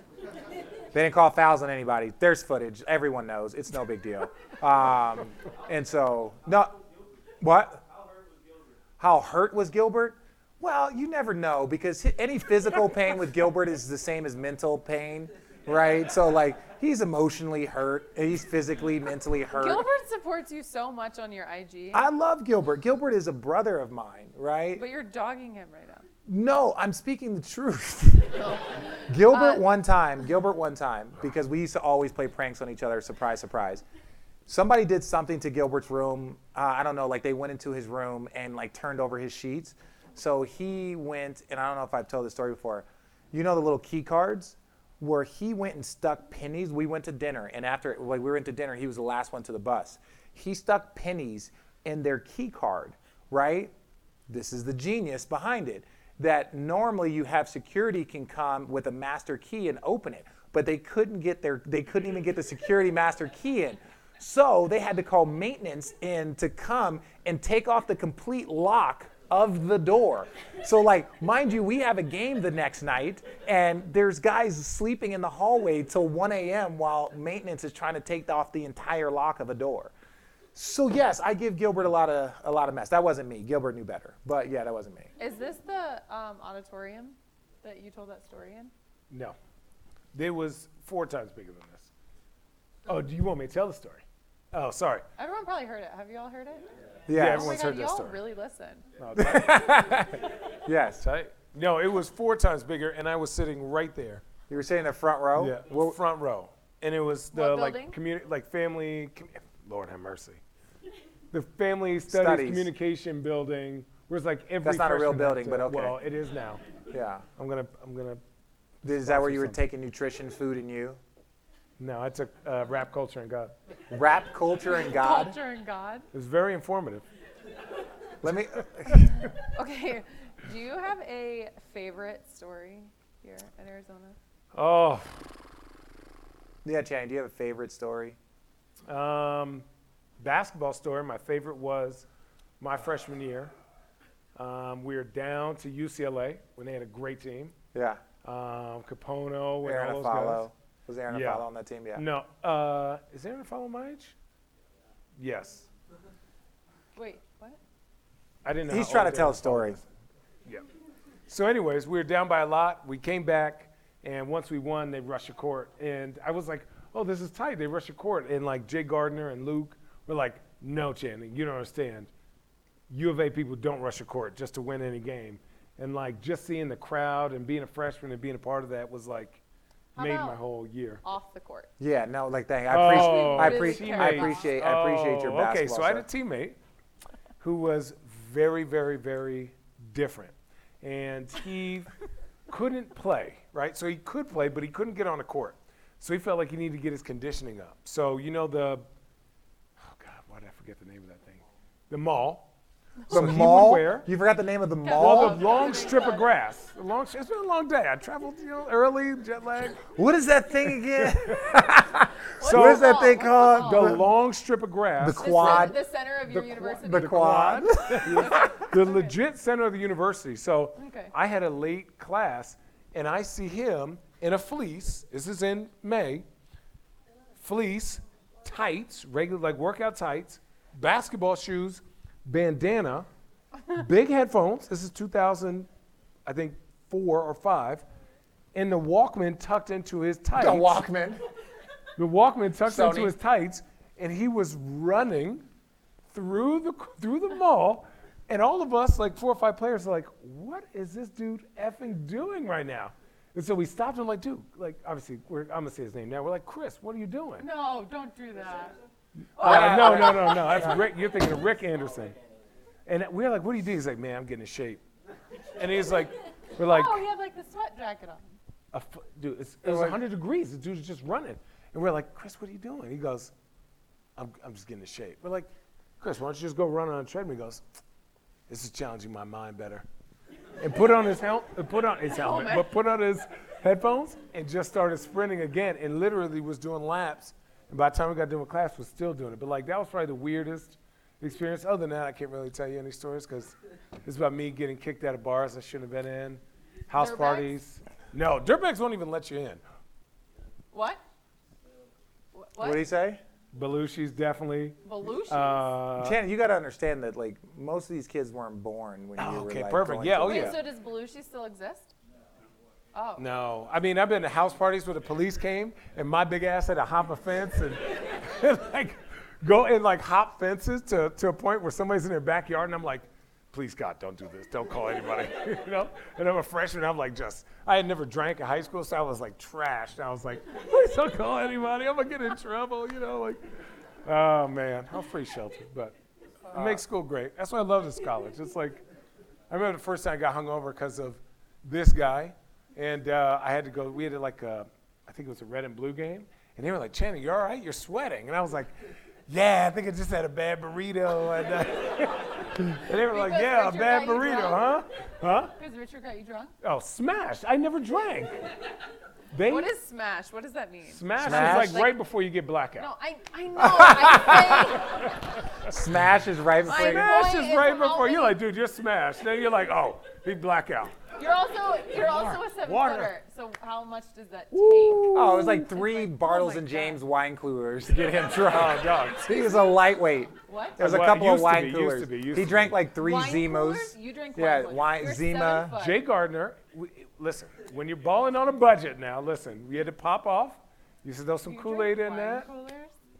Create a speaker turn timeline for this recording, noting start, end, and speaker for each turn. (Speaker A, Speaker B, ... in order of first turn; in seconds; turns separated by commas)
Speaker A: 0.9-6.8, Speaker A: 7.4-7.8, Speaker A: 9.0-19.9, Speaker B: 19.5-22.1, Speaker A: 21.9-24.8, Speaker B: 24.8-26.1, Speaker A: 26.3-28.5, Speaker B: 28.4-29.7, Speaker A: 29.1-33.8, Speaker A: 34.5-53.7, Speaker A: 54.3-79.9, Speaker A: 80.5-85.1, Speaker B: 85.2-88.7, Speaker C: 89.1-89.4, Speaker C: 90.1-91.9, Speaker C: 92.9-95.0, Speaker B: 95.2-98.9, Speaker A: 97.1-97.5, Speaker C: 97.1-98.2, Speaker C: 99.0-100.1, Speaker A: 99.1-101.1, Speaker C: 101.0-104.2, Speaker A: 104.5-106.0, Speaker C: 105.4-110.4, Speaker B: 107.3-108.0, Speaker C: 111.3-116.6, Speaker A: 112.1-112.7, Speaker A: 114.6-116.0, Speaker A: 116.9-117.2, Speaker C: 117.4-118.2, Speaker C: 118.8-119.6, Speaker A: 118.8-121.0, Speaker C: 121.8-123.5, Speaker A: 123.9-125.4, Speaker B: 124.7-126.1, Speaker C: 126.1-127.1, Speaker A: 128.2-129.3, Speaker B: 129.4-134.2, Speaker C: 134.5-135.3, Speaker A: 136.6-138.2, Speaker C: 138.9-139.6, Speaker C: 140.2-142.1, Speaker C: 142.6-143.5, Speaker C: 144.4-147.6, Speaker A: 147.7-148.0, Speaker C: 148.2-150.5, Speaker A: 149.6-152.1, Speaker C: 151.1-154.1, Speaker C: 155.2-155.7, Speaker B: 156.9-157.6, Speaker C: 158.4-159.8, Speaker A: 158.7-159.8, Speaker C: 161.3-172.1, Speaker C: 172.9-179.4, Speaker B: 179.9-180.4, Speaker C: 179.9-181.0, Speaker B: 181.0-181.7, Speaker A: 181.8-186.1, Speaker C: 182.7-186.6, Speaker B: 182.8-184.5, Speaker C: 187.4-191.9, Speaker C: 192.5-198.9, Speaker C: 199.8-202.5, Speaker C: 203.1-204.1, Speaker A: 203.1-205.5, Speaker B: 204.8-206.3, Speaker C: 205.0-209.9, Speaker A: 209.9-214.1, Speaker C: 211.0-211.6, Speaker B: 212.4-214.0, Speaker C: 212.4-215.7, Speaker A: 215.0-215.8, Speaker B: 215.2-217.4, Speaker C: 216.3-226.2, Speaker A: 216.3-218.5, Speaker B: 218.0-219.1, Speaker B: 220.8-221.1, Speaker C: 227.4-233.1, Speaker C: 233.7-235.7, Speaker C: 236.3-237.8, Speaker C: 238.5-240.8, Speaker A: 240.4-241.2, Speaker C: 241.9-245.4, Speaker A: 242.7-243.1, Speaker C: 246.1-257.4, Speaker B: 257.4-258.8, Speaker B: 259.4-260.7, Speaker C: 259.4-262.2, Speaker A: 259.4-260.9, Speaker C: 262.9-264.8, Speaker C: 265.6-267.1, Speaker B: 266.6-268.2, Speaker C: 268.7-273.3, Speaker A: 269.6-270.0, Speaker C: 274.2-275.5, Speaker C: 276.0-277.6, Speaker C: 278.5-279.9, Speaker C: 280.6-299.6, Speaker B: 282.1-282.7, Speaker B: 296.9-297.5, Speaker B: 300.7-301.0, Speaker B: 302.4-302.9, Speaker A: 302.6-303.2, Speaker C: 303.5-306.2, Speaker B: 304.8-305.7, Speaker A: 306.0-310.6, Speaker C: 309.2-310.6, Speaker B: 310.2-311.9, Speaker B: 312.9-313.3, Speaker C: 313.2-333.4, Speaker C: 334.1-335.9, Speaker C: 336.5-338.8, Speaker A: 336.5-336.8, Speaker C: 339.5-348.7, Speaker C: 349.3-355.5, Speaker B: 353.1-354.8, Speaker B: 355.6-356.6, Speaker C: 356.6-358.5, Speaker C: 359.3-359.7, Speaker B: 359.5-361.9, Speaker C: 360.9-362.9, Speaker A: 361.2-361.9, Speaker B: 362.8-365.2, Speaker A: 363.6-364.8, Speaker A: 365.6-367.3, Speaker B: 366.7-368.4, Speaker C: 366.7-370.9, Speaker B: 371.1-377.0, Speaker C: 371.9-373.1, Speaker C: 374.5-375.6, Speaker A: 375.1-385.7, Speaker C: 378.4-379.3, Speaker B: 380.5-380.8, Speaker C: 380.8-382.8, Speaker B: 382.9-386.0, Speaker C: 385.8-392.5, Speaker B: 391.5-392.9